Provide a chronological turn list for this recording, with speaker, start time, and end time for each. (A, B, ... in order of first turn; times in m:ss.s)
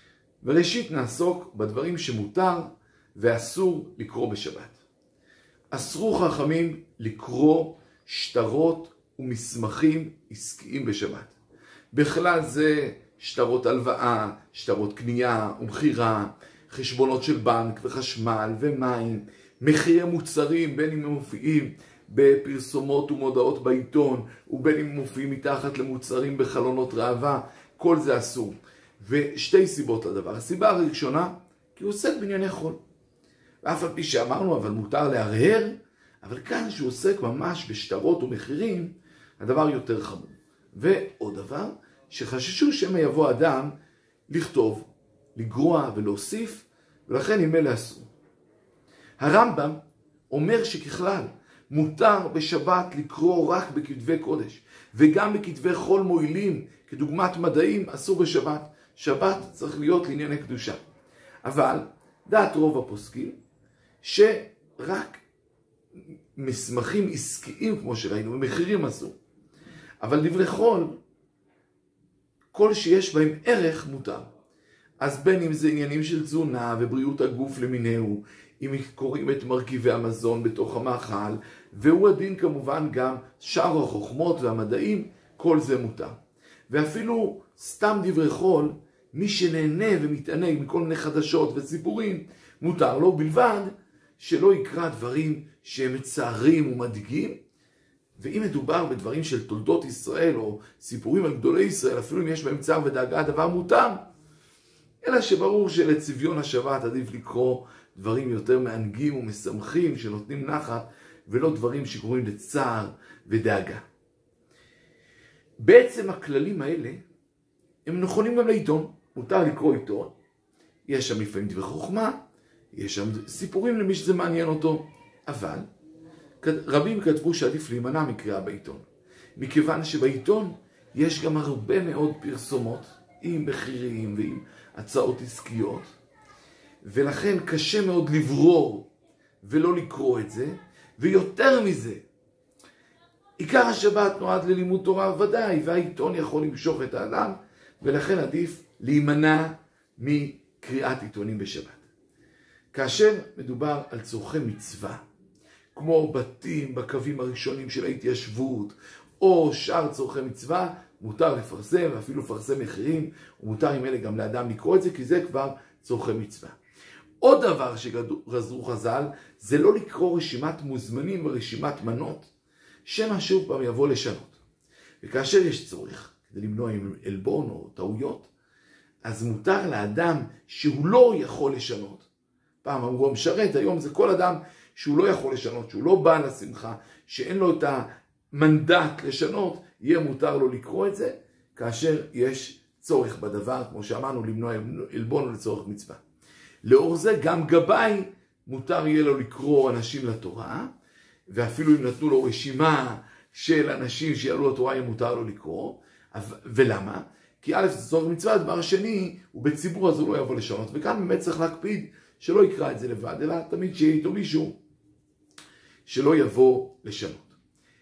0:00.4-0:04.8 A
0:05.7-0:11.3 A
0:11.9-0:32.8 A
0:33.6-0:43.7 A
0:44.3-0:48.1 A
0:49.2-1:00.8 A
1:01.4-1:03.4 A
1:04.0-1:05.2 A
1:06.3-1:09.2 A
1:10.0-1:11.0 A
1:12.5-1:14.3 A
1:15.0-1:26.2 A
1:26.7-1:37.4 A
1:38.2-1:44.0 A
1:45.0-1:53.8 A
1:55.6-1:57.0 A
1:57.8-2:00.1 A
2:00.9-2:02.2 A
2:02.7-2:05.7 A
2:06.4-2:08.8 A
2:09.4-2:15.9 A
2:16.8-2:18.9 A
2:19.4-2:22.0 A
2:23.4-2:31.8 A
2:32.7-2:35.0 A
2:35.7-2:46.5 A
2:47.2-2:52.3 A
2:52.8-2:54.4 A
2:55.0-2:58.3 A
2:59.0-3:02.1 A
3:02.6-3:16.0 A
3:16.6-3:20.7 A
3:21.3-3:34.6 A
3:35.8-3:37.4 A